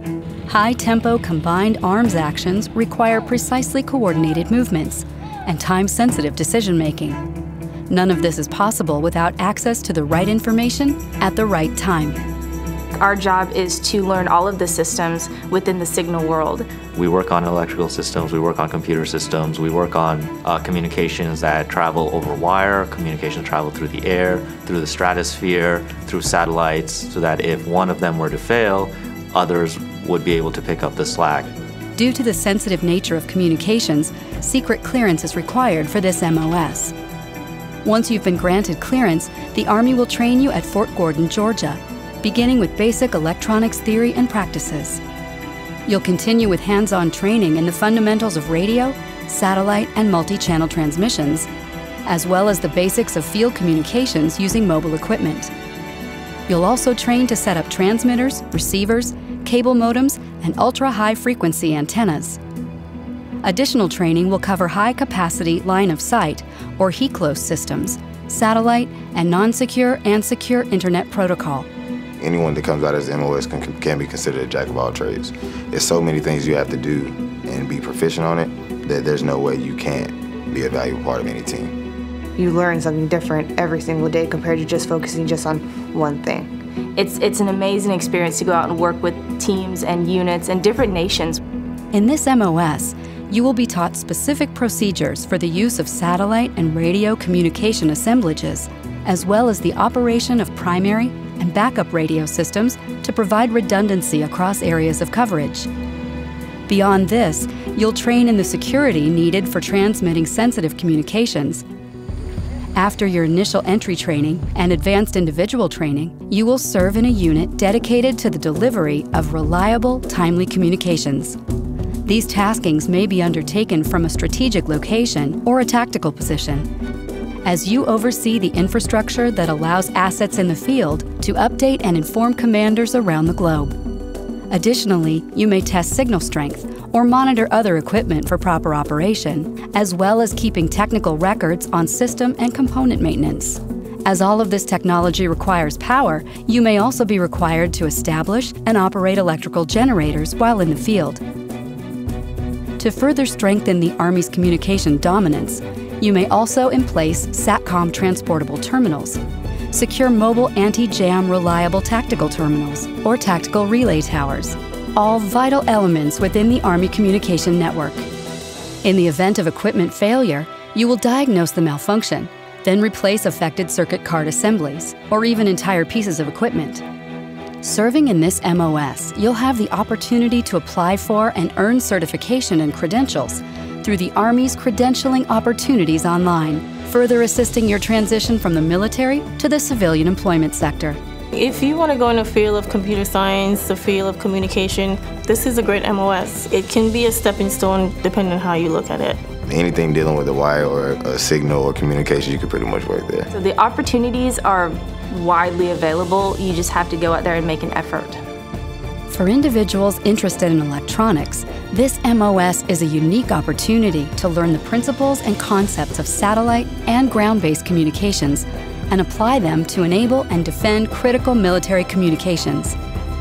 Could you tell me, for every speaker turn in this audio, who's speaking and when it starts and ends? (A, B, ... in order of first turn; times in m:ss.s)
0:00.5-0:07.2 A
0:07.9-0:12.2 A
0:13.0-0:16.7 B
0:17.0-0:31.5 C
0:32.0-0:36.9 A
0:37.8-0:45.0 A
0:45.9-0:51.5 A
0:52.1-0:55.5 A
0:56.5-1:02.4 A
1:03.4-1:11.7 A
1:12.2-1:21.7 D
1:22.4-1:26.5 E
1:27.0-1:31.4 B
1:31.9-1:45.7 A
1:46.7-1:51.6 A
1:52.8-2:01.4 A
2:02.1-2:06.7 A
2:07.4-2:13.7 A
2:14.5-2:31.2 A
2:32.8-2:48.1 A
2:48.8-2:56.8 A
2:57.6-3:11.0 A
3:11.3-3:19.2 F
3:19.4-3:23.3 D
3:23.3-3:28.2 B
3:29.1-3:42.8 A